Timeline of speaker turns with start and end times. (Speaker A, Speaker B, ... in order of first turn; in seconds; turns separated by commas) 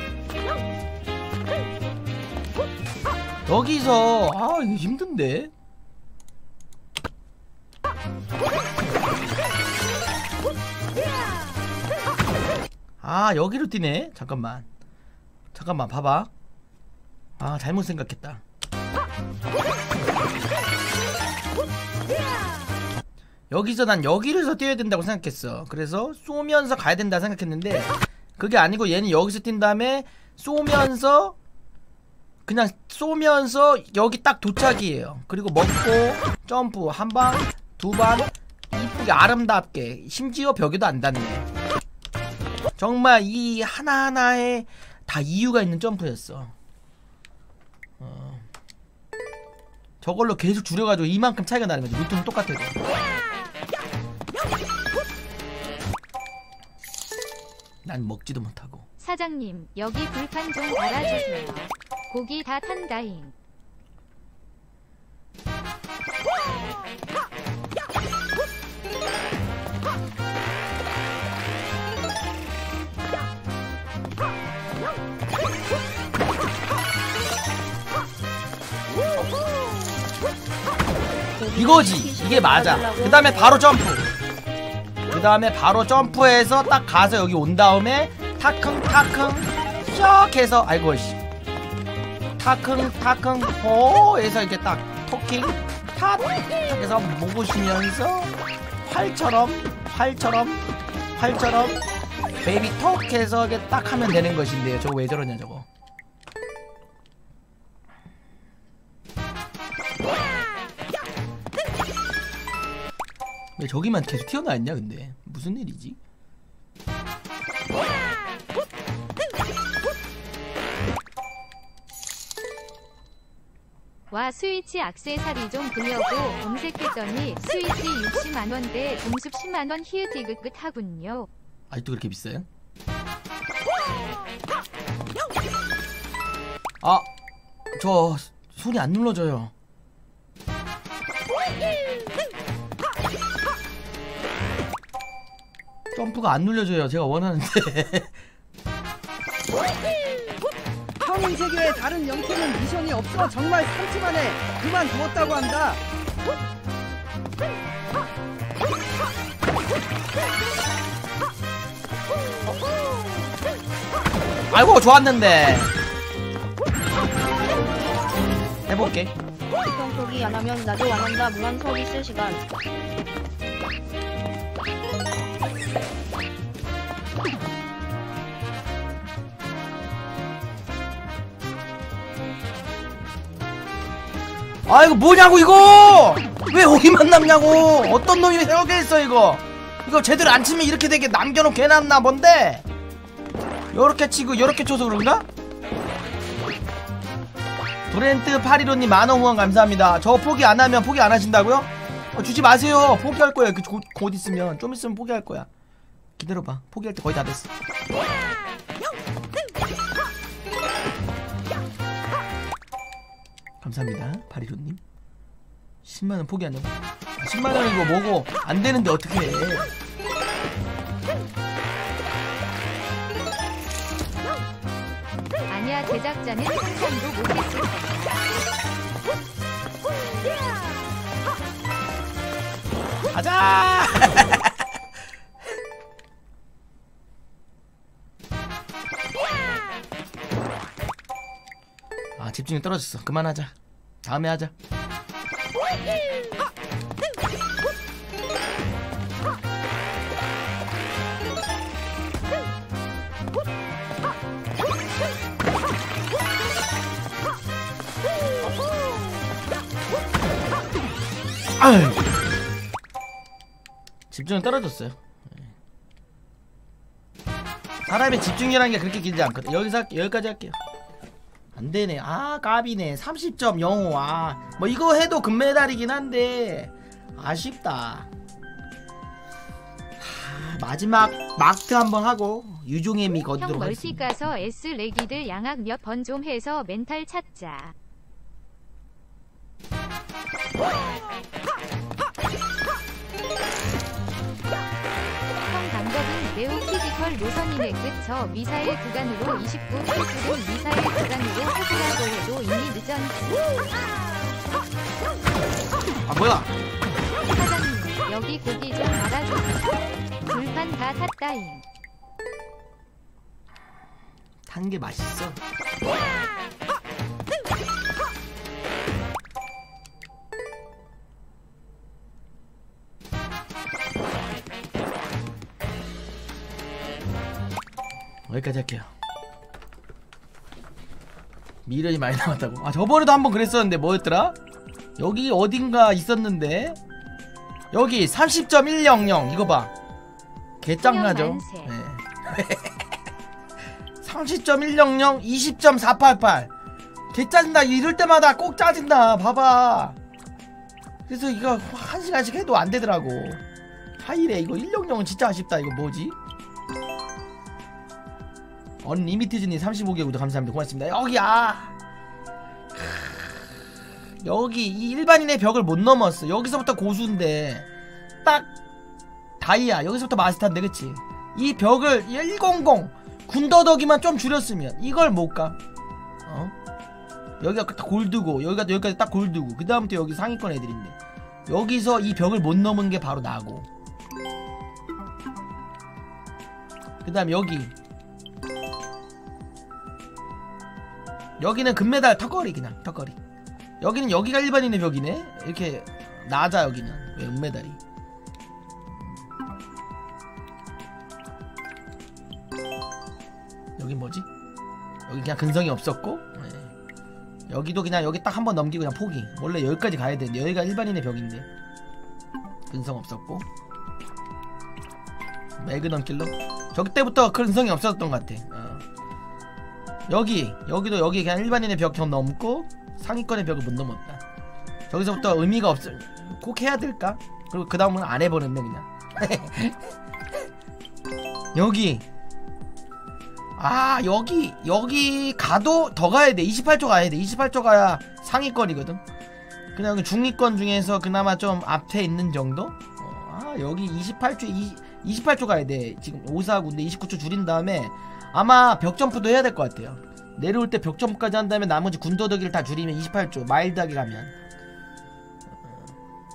Speaker A: 3.5-5.5, Speaker A: 13.0-14.7, Speaker A: 15.5-16.3, Speaker A: 17.4-18.4, Speaker A: 23.5-31.4, Speaker A: 32.5-41.5, Speaker A: 42.8-46.5, Speaker A: 48.0-48.5, Speaker A: 50.0-52.7, Speaker A: 57.8-58.8, Speaker B: 59.0-63.3, Speaker C: 81.4-83.6, Speaker A: 81.5-84.1, Speaker A: 85.1-91.2, Speaker A: 92.4-98.3, Speaker A: 98.8-100.6, Speaker A: 101.1-101.8, Speaker A: 102.4-105.7, Speaker A: 113.6-116.0, Speaker B: 124.1-131.3, Speaker A: 131.7-132.4, Speaker A: 136.8-137.1, Speaker A: 137.7-139.5, Speaker A: 145.9-148.1, Speaker D: 151.0-155.8, Speaker A: 164.5-165.7, Speaker A: 168.7-169.1, Speaker C: 169.6-172.4, Speaker A: 184.7-192.6, Speaker A: 193.7-195.2, Speaker A: 197.9-205.5, Speaker A: 206.2-207.5, Speaker A: 213.6-214.8, Speaker A: 215.8-219.7, Speaker B: 225.5-228.2, Speaker A: 233.1-234.5, Speaker A: 242.2-243.5, Speaker A: 244.0-244.5, Speaker A: 261.6-262.1, Speaker A: 264.1-265.5, Speaker A: 267.9-270.6, Speaker A: 271.5-278.1, Speaker A: 280.0-284.1, Speaker B: 283.4-287.7, Speaker B: 295.5-303.3, Speaker A: 306.0-306.5, Speaker B: 307.3-309.8, Speaker B: 310.3-311.6, Speaker A: 314.5-315.4, Speaker A: 328.3-328.9, Speaker A: 331.6-334.4, Speaker A: 335.0-336.8, Speaker A: 337.7-339.7, Speaker A: 340.6-342.8, Speaker B: 340.8-341.7, Speaker A: 344.0-346.5, Speaker A: 347.1-350.0, Speaker A: 351.1-353.4, Speaker A: 354.0-356.1, Speaker A: 358.8-361.7, Speaker A: 362.7-363.4, Speaker A: 364.2-367.7, Speaker A: 369.4-375.6, Speaker A: 376.2-376.5, Speaker A: 377.4-380.9, Speaker A: 381.5-383.7, Speaker A: 387.0-387.7, Speaker A: 391.4-393.2, Speaker A: 393.8-397.8, Speaker A: 403.8-404.2, Speaker A: 405.1-406.7, Speaker A: 407.5-411.5, Speaker A: 412.7-413.4, Speaker A: 415.6-418.8, Speaker A: 420.1-424.2, Speaker A: 424.9-429.8, Speaker A: 431.5-432.0, Speaker A: 433.6-439.0, Speaker A: 439.7-454.3